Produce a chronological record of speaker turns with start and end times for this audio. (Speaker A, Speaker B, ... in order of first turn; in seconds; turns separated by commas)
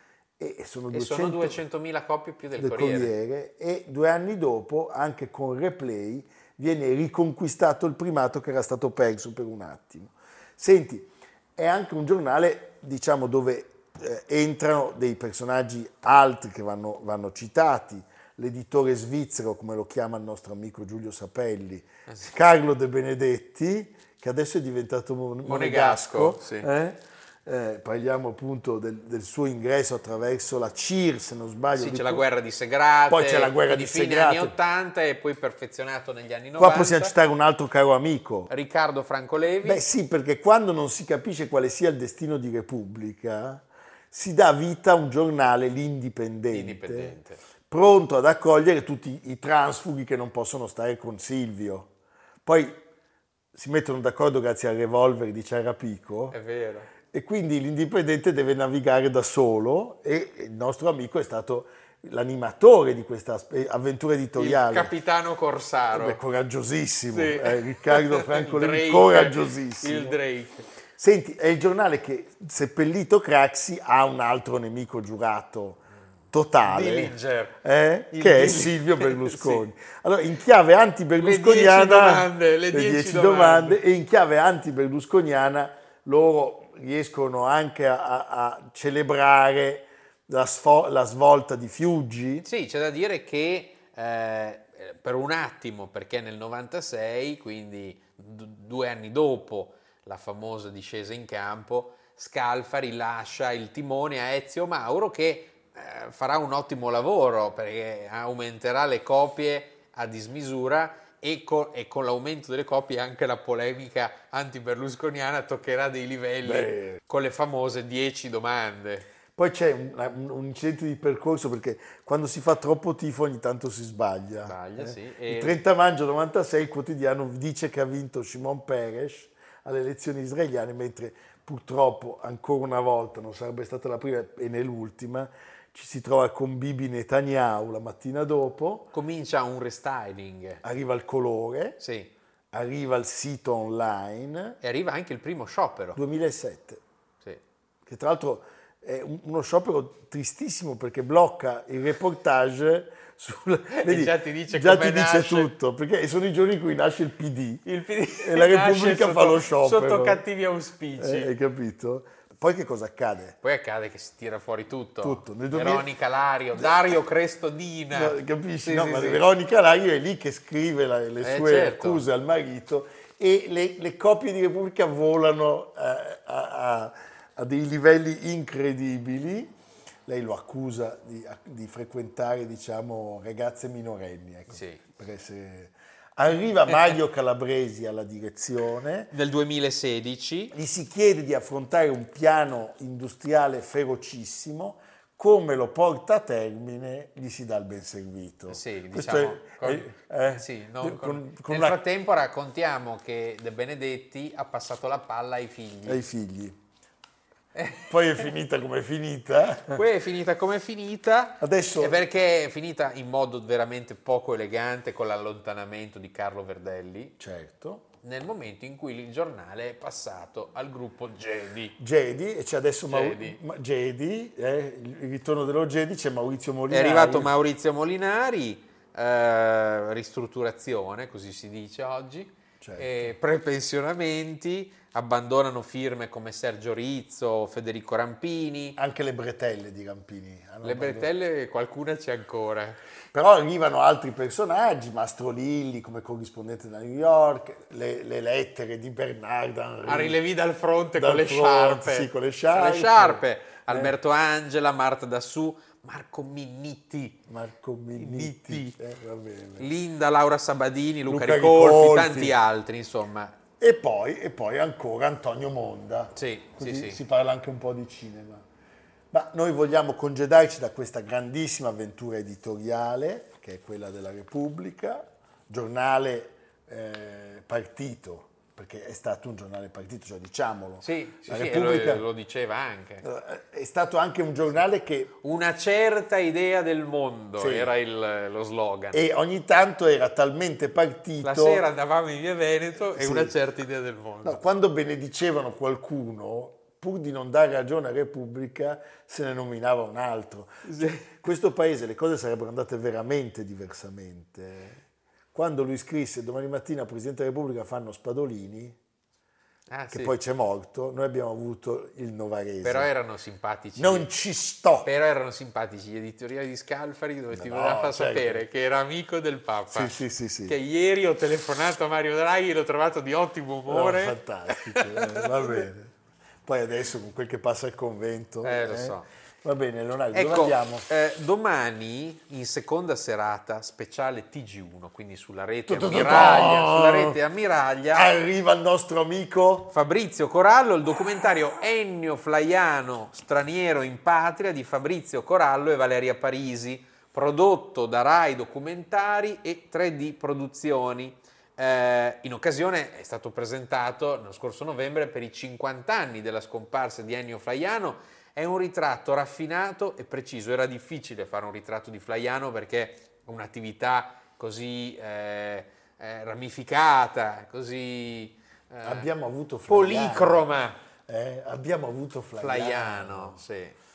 Speaker A: 0.4-1.6, Speaker B: 0.9-3.1, Speaker A: 2.6-32.2, Speaker B: 25.4-26.7, Speaker B: 31.7-37.1, Speaker A: 33.1-34.5, Speaker A: 36.6-38.5, Speaker B: 38.5-39.8, Speaker A: 39.6-47.2, Speaker B: 46.5-47.4, Speaker A: 47.7-51.9, Speaker A: 52.4-52.8, Speaker A: 53.5-56.4, Speaker B: 56.3-56.9, Speaker A: 57.1-64.9, Speaker B: 64.3-66.2, Speaker A: 65.9-70.2, Speaker B: 67.1-70.7, Speaker A: 71.0-92.5, Speaker B: 76.6-77.6, Speaker B: 78.1-79.6, Speaker B: 81.2-83.8, Speaker B: 92.4-119.1, Speaker A: 116.4-117.0, Speaker A: 119.3-138.9, Speaker B: 124.5-125.6, Speaker B: 138.9-140.6, Speaker A: 140.6-141.8, Speaker B: 141.8-142.1, Speaker A: 142.5-144.6, Speaker B: 144.6-146.0, Speaker A: 145.9-146.8, Speaker A: 147.8-157.6, Speaker B: 153.7-155.5, Speaker B: 157.6-161.3, Speaker A: 158.2-160.2, Speaker A: 161.0-163.4, Speaker B: 163.4-169.2, Speaker A: 165.0-165.8, Speaker A: 167.9-179.5, Speaker B: 171.2-172.0, Speaker A: 180.1-189.1, Speaker B: 184.5-184.8, Speaker B: 189.1-190.5, Speaker A: 190.5-201.8, Speaker B: 198.5-206.0, Speaker A: 205.8-206.6, Speaker B: 207.5-207.9, Speaker A: 207.8-209.8, Speaker B: 209.7-217.1, Speaker A: 211.4-212.0, Speaker A: 217.2-217.8, Speaker B: 218.0-221.8, Speaker A: 221.8-227.3, Speaker B: 222.9-223.4, Speaker B: 226.7-238.8, Speaker A: 232.6-233.1, Speaker A: 238.8-241.1, Speaker B: 240.6-242.8, Speaker A: 243.1-250.2, Speaker B: 249.8-257.2, Speaker A: 250.9-253.9, Speaker A: 257.3-259.7, Speaker B: 257.9-258.8, Speaker B: 259.6-263.4, Speaker A: 261.1-262.3, Speaker A: 263.6-268.4, Speaker B: 266.1-267.0, Speaker A: 269.1-282.0, Speaker B: 280.8-283.0, Speaker A: 283.0-285.1, Speaker B: 285.2-289.0, Speaker A: 287.4-287.7, Speaker A: 288.9-291.6, Speaker B: 291.2-294.4, Speaker A: 292.9-293.3, Speaker A: 294.2-304.8, Speaker B: 300.6-301.1, Speaker A: 305.3-308.8, Speaker B: 309.7-310.1, Speaker A: 309.9-312.9, Speaker B: 312.6-314.1, Speaker A: 313.8-314.9, Speaker B: 314.8-325.6, Speaker A: 317.3-318.4, Speaker A: 319.7-320.6, Speaker A: 323.7-330.9, Speaker B: 328.4-329.1, Speaker B: 330.1-338.1, Speaker A: 335.7-337.2, Speaker A: 337.9-339.7, Speaker B: 339.7-369.1, Speaker A: 368.8-370.4, Speaker B: 369.7-370.8, Speaker A: 371.1-373.4, Speaker B: 372.4-373.8